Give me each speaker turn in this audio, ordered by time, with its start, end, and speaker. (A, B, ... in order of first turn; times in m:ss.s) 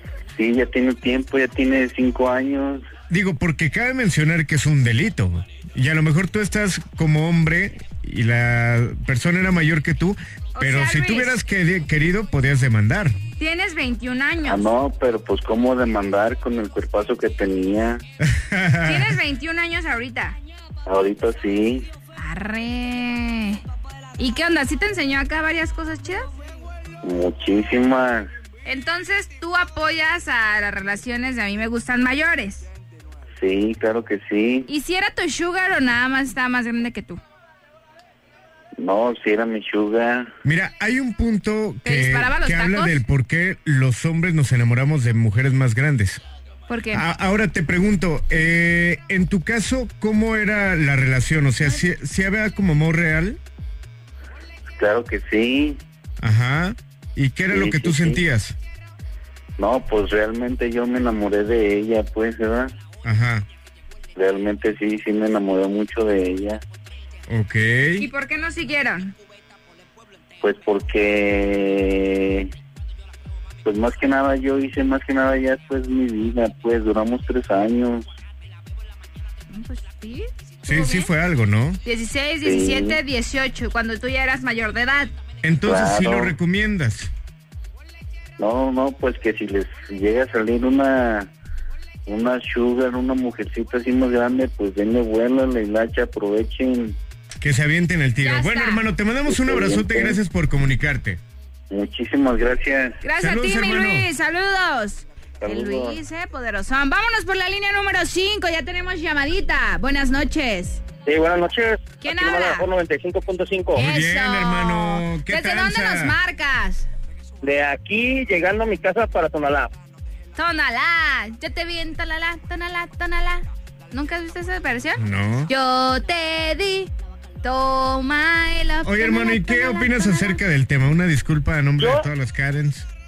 0:00.3-0:02.8 A
0:03.1-0:13.2 B
0:10.5-0:11.4 C
0:13.4-0:14.6 C
0:14.4-0:18.0 A
0:18.2-0:19.2 B
0:18.8-0:20.4 C
0:20.8-0:21.9 A
0:22.2-0:23.6 C
0:24.2-0:26.3 C
0:27.0-0:28.3 A
0:28.6-0:32.7 C
0:33.4-0:34.7 A
0:34.7-0:37.2 C
0:38.8-0:40.3 A
0:40.4-0:46.2 B
0:41.8-0:43.0 C
0:46.7-0:47.0 C
0:46.9-0:53.4 B
0:54.7-0:55.8 A
0:56.2-0:58.6 B
0:57.5-0:58.2 A
0:59.6-1:02.7 A
1:03.0-1:03.4 B
1:04.2-1:06.6 A
1:07.3-1:08.0 B
1:08.0-1:09.1 C
1:10.4-1:12.5 A
1:13.6-1:18.0 A
1:19.5-1:21.1 C
1:20.6-1:21.8 B
1:21.8-1:25.1 C
1:22.4-1:23.0 A
1:25.4-1:27.1 B
1:25.6-1:26.3 A
1:28.4-1:31.3 A
1:32.0-1:37.0 A
1:37.4-1:41.2 B
1:38.2-1:38.8 C
1:39.3-1:40.2 A
1:41.7-1:43.0 A
1:43.0-1:50.8 C
1:43.2-1:44.1 B
1:45.4-1:46.0 A
1:51.0-1:53.8 D
1:52.0-1:52.6 C
1:53.7-1:56.2 B
1:53.8-1:56.9 C
1:57.4-1:59.7 D
2:00.4-2:06.9 C
2:05.0-2:05.5 B
2:07.4-2:10.4 C
2:08.8-2:12.9 B
2:11.8-2:12.1 D